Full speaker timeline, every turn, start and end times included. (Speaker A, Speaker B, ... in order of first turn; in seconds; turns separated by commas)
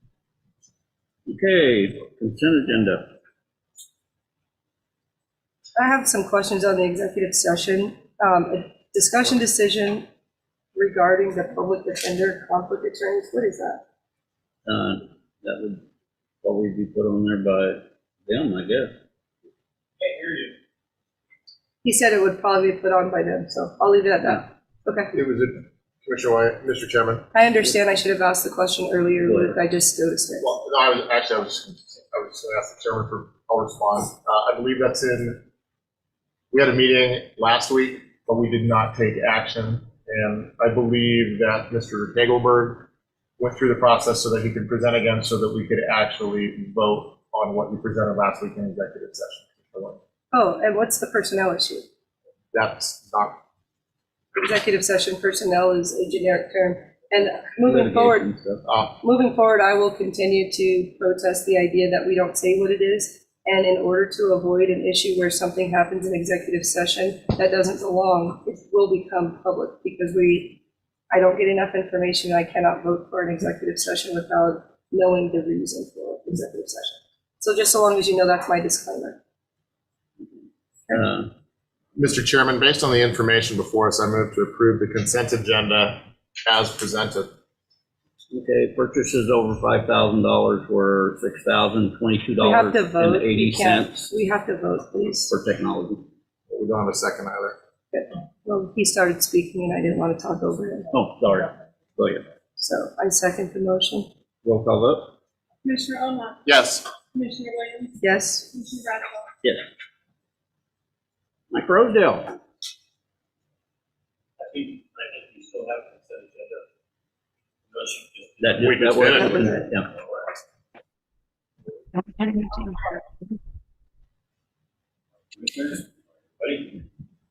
Speaker A: 1.3-3.1, Speaker B: 5.8-10.1, Speaker B: 10.8-13.8, Speaker A: 14.7-15.8, Speaker A: 16.4-18.9, Speaker C: 20.1-20.4, Speaker B: 21.8-25.1, Speaker D: 25.1-27.3, Speaker B: 27.3-30.5, Speaker A: 29.2-29.6, Speaker D: 30.4-35.4, Speaker D: 36.5-42.9, Speaker D: 43.4-50.0, Speaker B: 50.3-51.9, Speaker D: 52.5-53.4, Speaker B: 54.4-58.3, Speaker A: 57.6-58.6, Speaker D: 58.7-59.0, Speaker B: 59.0-79.2, Speaker A: 80.9-81.3, Speaker D: 82.0-87.3, Speaker A: 88.3-94.1, Speaker B: 92.4-95.3, Speaker A: 95.3-96.0, Speaker D: 96.5-97.6, Speaker B: 97.9-100.9, Speaker A: 100.9-102.2, Speaker B: 102.6-104.1, Speaker A: 104.4-105.1, Speaker E: 105.7-106.4, Speaker D: 106.5-106.9, Speaker E: 107.1-108.0, Speaker B: 108.0-108.5, Speaker E: 108.5-109.2, Speaker A: 111.5-112.4, Speaker C: 114.4-116.6, Speaker C: 117.7-118.4, Speaker A: 118.4-119.9, Speaker D: 118.6-119.5, Speaker B: 119.2-119.7, Speaker C: 125.3-126.8